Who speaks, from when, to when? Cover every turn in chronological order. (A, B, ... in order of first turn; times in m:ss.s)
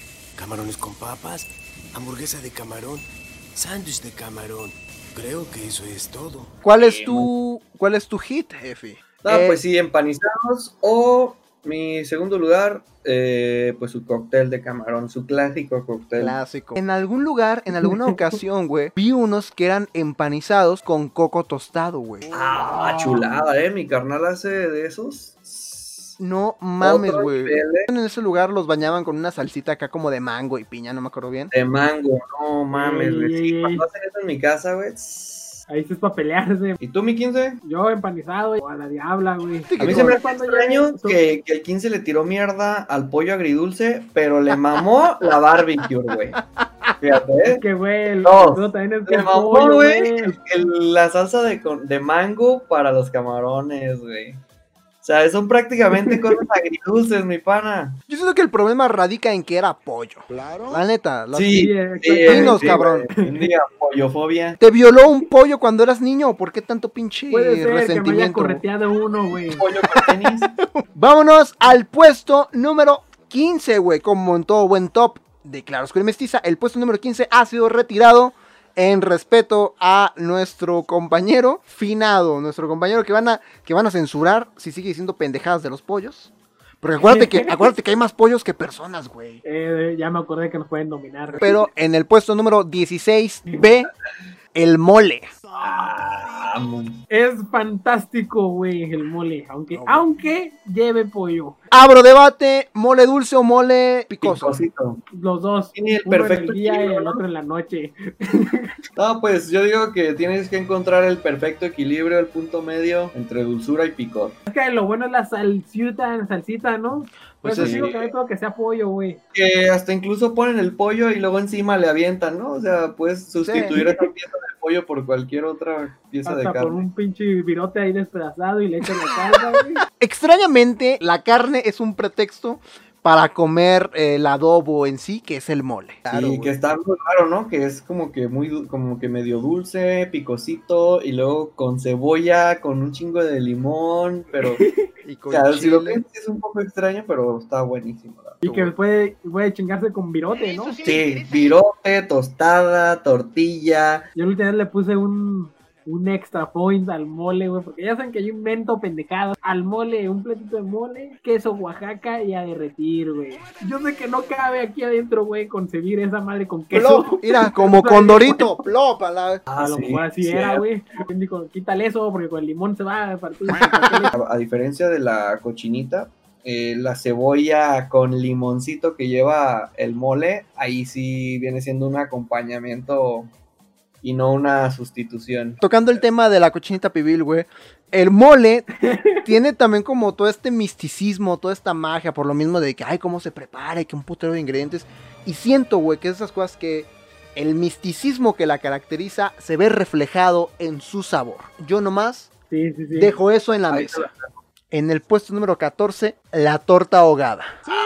0:00.4-0:06.6 A
0:06.6-0:09.6 B
0:06.8-0:07.3 C
0:09.2-0:16.4 C
0:16.2-0:22.3 B
0:17.8-0:18.3 D
0:22.3-0:26.2 C
0:26.2-0:31.5 B
0:26.8-0:27.9 C
0:31.5-0:35.6 C
0:32.7-0:33.8 D
0:35.7-0:36.8 D
0:36.8-0:37.6 C
0:37.6-0:41.2 D
0:39.7-0:40.2 B
0:39.8-0:46.4 C
0:46.4-0:47.0 B
0:47.0-0:47.6 C
0:47.4-0:50.4 D
0:48.2-0:54.4 C
0:55.0-0:58.0 C
0:58.1-1:01.7 B
1:01.3-1:04.6 C
1:01.5-1:03.4 D
1:02.2-1:03.1 B
1:04.6-1:08.6 B
1:07.3-1:09.7 D
1:09.6-1:10.6 C
1:09.9-1:29.4 B
1:27.1-1:27.6 D
1:29.4-1:31.6 D
1:31.4-1:33.9 B
1:34.5-1:35.4 B
1:35.6-1:37.0 C
1:37.1-1:41.6 D
1:39.7-1:40.1 B
1:41.7-1:44.6 B
1:44.2-1:45.0 C
1:45.1-1:48.7 D
1:45.8-1:47.2 C
1:49.0-1:54.4 C
1:54.5-1:59.2 D
1:57.4-1:57.9 B
1:57.6-1:58.1 C
1:59.3-2:06.8 C
2:03.4-2:03.8 B
2:03.6-2:04.0 D
2:06.2-2:09.8 D
2:10.0-2:16.6 B
2:16.1-2:24.6 C
2:24.4-2:24.9 D
2:25.0-2:26.0 B
2:25.3-2:28.4 C
2:28.4-2:28.7 B
2:28.4-2:30.8 D
2:30.8-2:34.1 C
2:34.2-2:48.6 D
2:46.7-2:49.4 B
2:49.5-2:50.6 C
2:49.6-2:54.1 D
2:53.5-2:54.1 B
2:54.1-3:03.3 C
3:04.0-3:05.6 C
3:05.6-3:08.7 B
3:08.8-3:09.3 D
3:09.2-3:22.3 B
3:22.5-3:23.2 D
3:23.0-3:24.1 B
3:23.7-3:24.4 C
3:24.7-3:27.6 B